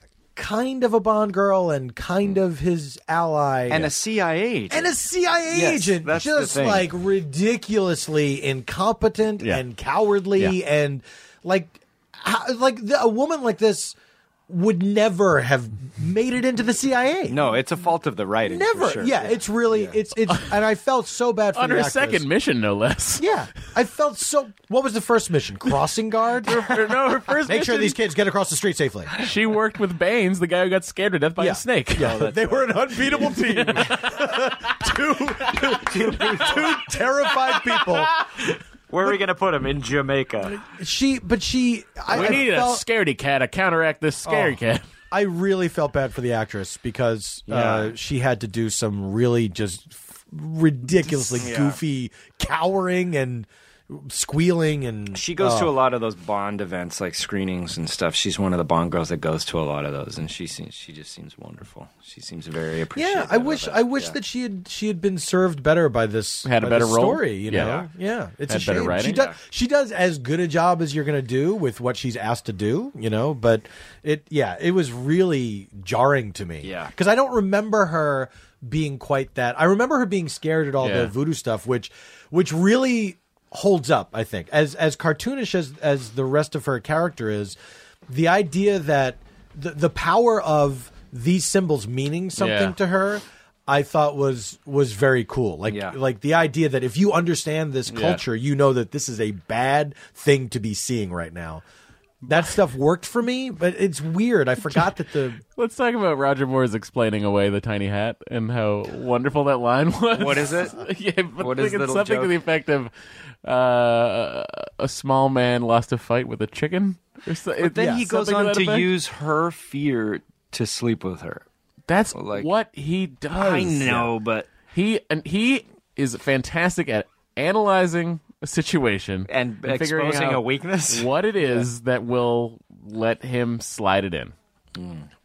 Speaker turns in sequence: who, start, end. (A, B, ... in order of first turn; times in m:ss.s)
0:00.4-0:03.9 A
0:03.7-0:04.9 B
0:04.7-0:14.0 A
0:05.5-0:06.9 B
0:14.5-0:17.4 A
0:17.3-0:19.9 B
0:18.4-0:22.3 A
0:21.5-0:23.2 C
0:23.2-0:26.7 A
0:26.5-0:28.0 C
0:27.4-0:29.1 A
0:29.2-0:32.2 C
0:31.4-0:38.1 A
0:32.0-0:33.4 B
0:33.2-0:34.7 C
0:35.5-0:36.8 C
0:35.9-0:36.6 B
0:37.4-0:38.6 C
0:38.9-0:40.6 B
0:40.5-0:42.8 A
0:42.1-0:44.8 C
0:44.2-0:44.6 A
0:45.1-0:55.7 A
0:47.5-0:47.9 B
0:51.4-0:51.8 B
0:55.1-1:04.1 B
1:02.9-1:27.6 A
1:06.4-1:07.8 C
1:07.5-1:07.9 B
1:08.5-1:09.2 C
1:08.9-1:09.4 B
1:16.6-1:16.9 B
1:20.8-1:21.1 C
1:28.1-1:41.6 A
1:32.4-1:32.7 C
1:35.7-1:36.0 B
1:37.9-1:38.2 C
1:42.2-1:45.4 A
1:45.6-1:52.9 C
1:50.1-1:50.8 B
1:51.4-1:52.3 B
1:53.4-1:58.9 C
1:57.6-2:01.4 B
2:01.9-2:04.1 C
2:02.1-2:02.5 B
2:03.3-2:04.5 B
2:04.7-2:14.3 C
2:09.3-2:11.6 B
2:14.8-2:15.1 B